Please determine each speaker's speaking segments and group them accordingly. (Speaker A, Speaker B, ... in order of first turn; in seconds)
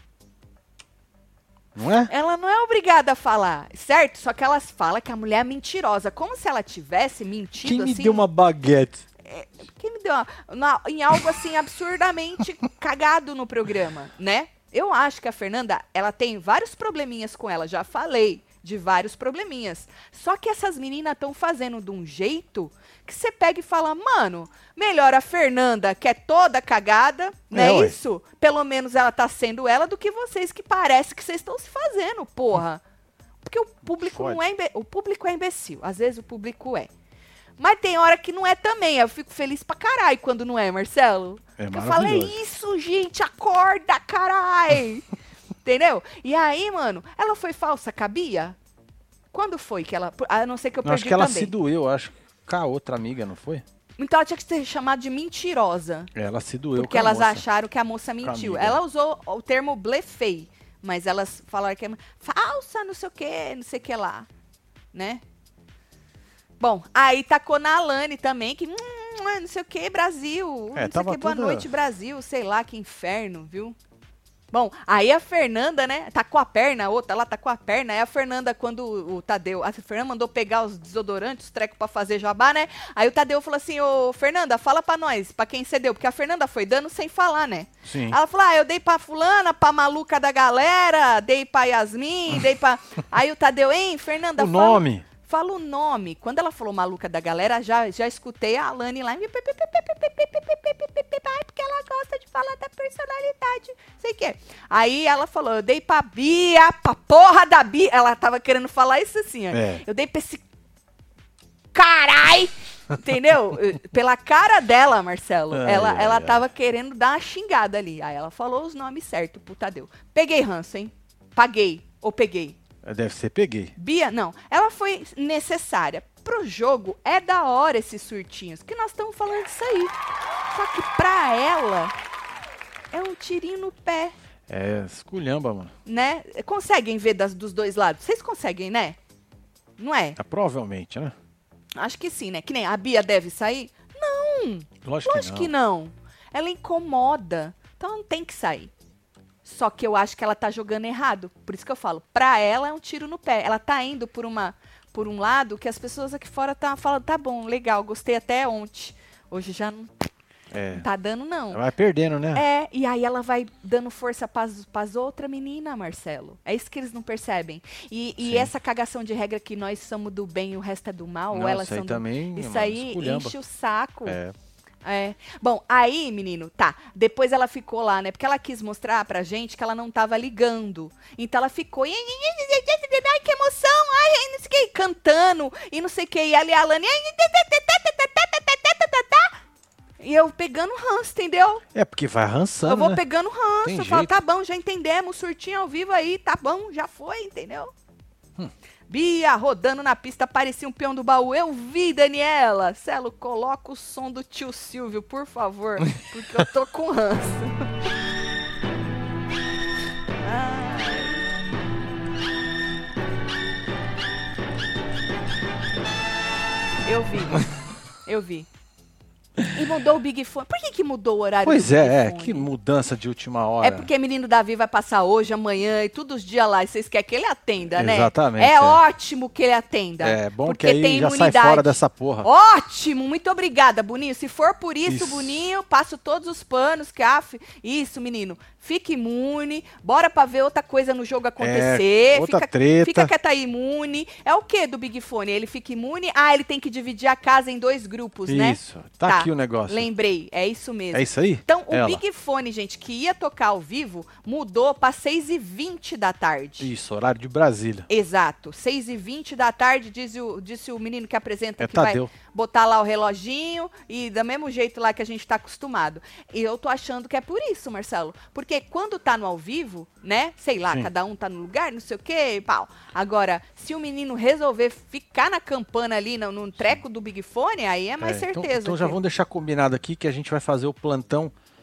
Speaker A: 1.7-2.1, 7.6-9.1, 27.5-27.9, 34.1-34.4, 41.6-42.3, 50.8-53.6, 56.1-57.4, 58.2-58.8, 70.7-71.7, 87.8-88.2, 94.3-95.0, 109.5-109.8, 115.5-116.4, 122.8-123.7, 134.5-135.7, 140.2-141.1, 144.8-145.5, 160.5-160.8, 161.5-162.4, 168.2-168.5, 171.3-173.4, 174.1-174.3, 191.7-193.0, 193.6-194.1, 221.4-223.9, 227.7-228.8, 230.0-232.3, 234.8-235.4, 241.4-243.1, 248.3-249.9, 250.9-252.0, 256.6-257.9, 261.6-262.1, 278.0-281.3
Speaker B: 2.1-8.3, 9.2-32.8, 33.4-36.9, 37.6-45.0, 45.6-48.5, 49.3-51.5, 54.0-56.1, 56.7-64.3, 64.9-65.2, 66.6-73.8, 74.5-110.4, 111.7-122.6, 123.8-129.9, 130.5-131.9, 132.9-134.1, 135.8-139.0, 139.8-140.2, 141.8-148.7, 149.4-159.9, 160.7-161.6, 162.3-174.2, 174.8-189.3, 190.0-191.6, 192.6-197.7, 198.9-207.7, 210.2-211.2, 216.8-217.4, 218.1-218.5, 219.5-222.5, 223.6-256.7, 257.9-279.0